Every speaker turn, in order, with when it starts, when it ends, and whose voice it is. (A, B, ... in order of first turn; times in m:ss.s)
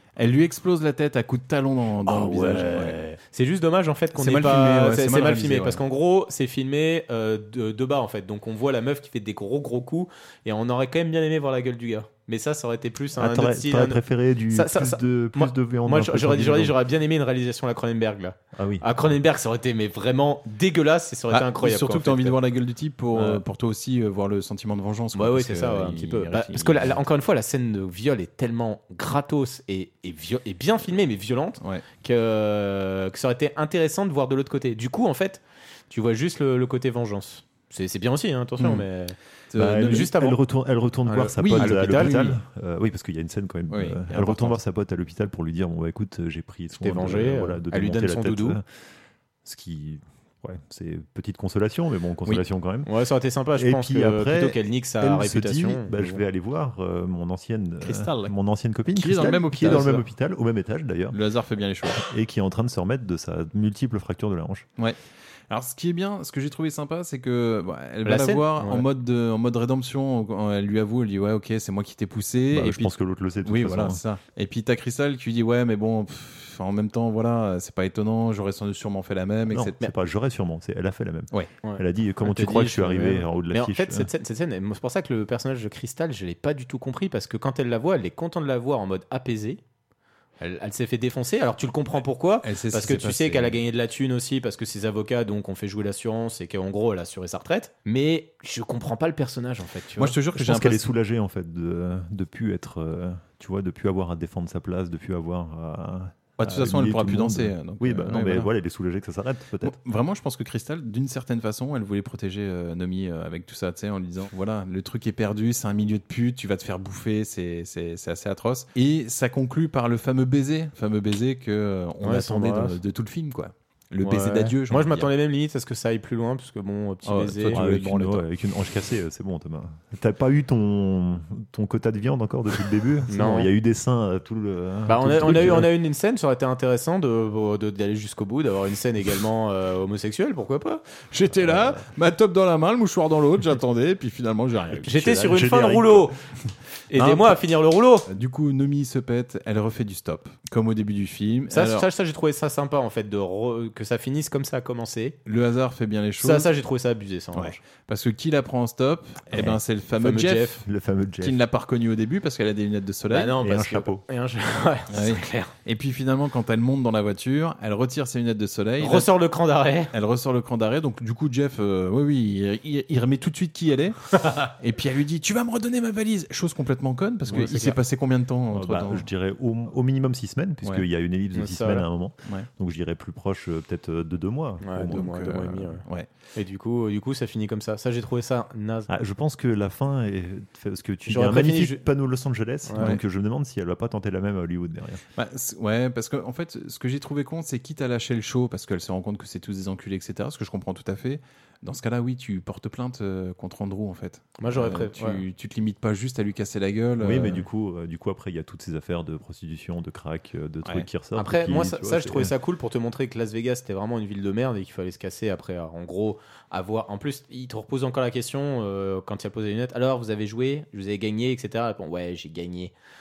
0:00.2-0:03.0 A
0:02.0-0:22.4 B
0:04.1-0:05.8 A
0:13.2-0:16.7 C
0:18.5-0:18.8 C
0:21.3-0:27.0 A
0:23.1-0:23.4 B
0:25.1-0:40.4 B
0:38.6-0:38.8 A
0:39.5-0:40.1 A
0:39.6-0:48.6 C
0:41.0-0:42.3 B
0:41.4-0:42.4 A
0:43.7-0:44.6 A
0:46.7-0:48.6 B
0:49.4-0:52.9 C
0:52.3-0:56.2 B
0:53.6-1:01.2 C
0:57.8-0:58.3 A
0:58.9-1:00.0 A
1:01.1-1:02.0 A
1:02.0-1:04.7 C
1:05.5-1:19.9 A
1:08.0-1:08.8 B
1:12.5-1:14.0 C
1:19.5-1:24.1 C
1:21.6-1:29.6 B
1:30.4-1:40.2 B
1:32.4-1:33.6 A
1:40.0-1:40.9 A
1:40.4-1:49.8 C
1:46.4-1:48.5 A
1:49.6-2:05.1 A
2:02.0-2:02.8 B
2:04.0-2:08.2 B
2:07.0-2:08.1 A
2:07.5-2:15.7 C
2:13.1-2:13.5 B
2:14.9-2:20.8 B
2:21.1-2:25.4 A
2:21.4-2:21.8 C
2:24.8-2:26.1 B
2:25.0-2:26.1 C
2:26.9-2:28.0 B
2:26.9-2:27.4 A
2:28.1-2:31.8 A
2:31.5-2:35.2 B
2:35.2-2:36.5 A
2:36.2-2:37.6 B
2:37.3-2:40.6 A
2:40.0-2:40.6 B
2:40.6-2:41.4 C
2:41.2-2:43.4 A
2:43.1-2:45.5 B
2:43.4-2:44.0 C
2:44.9-2:49.1 A
2:48.8-2:49.9 B
2:49.9-2:59.0 A
2:57.3-2:57.8 B
2:58.5-3:05.4 C
3:01.3-3:01.8 B
3:04.6-3:05.8 B
3:04.9-3:06.1 A
3:06.3-3:08.9 B
3:08.9-3:15.0 C
3:11.0-3:11.8 B
3:12.7-3:12.9 B
3:15.2-3:27.4 A
3:24.4-3:25.2 B
3:27.0-3:32.3 C
3:31.1-3:42.7 B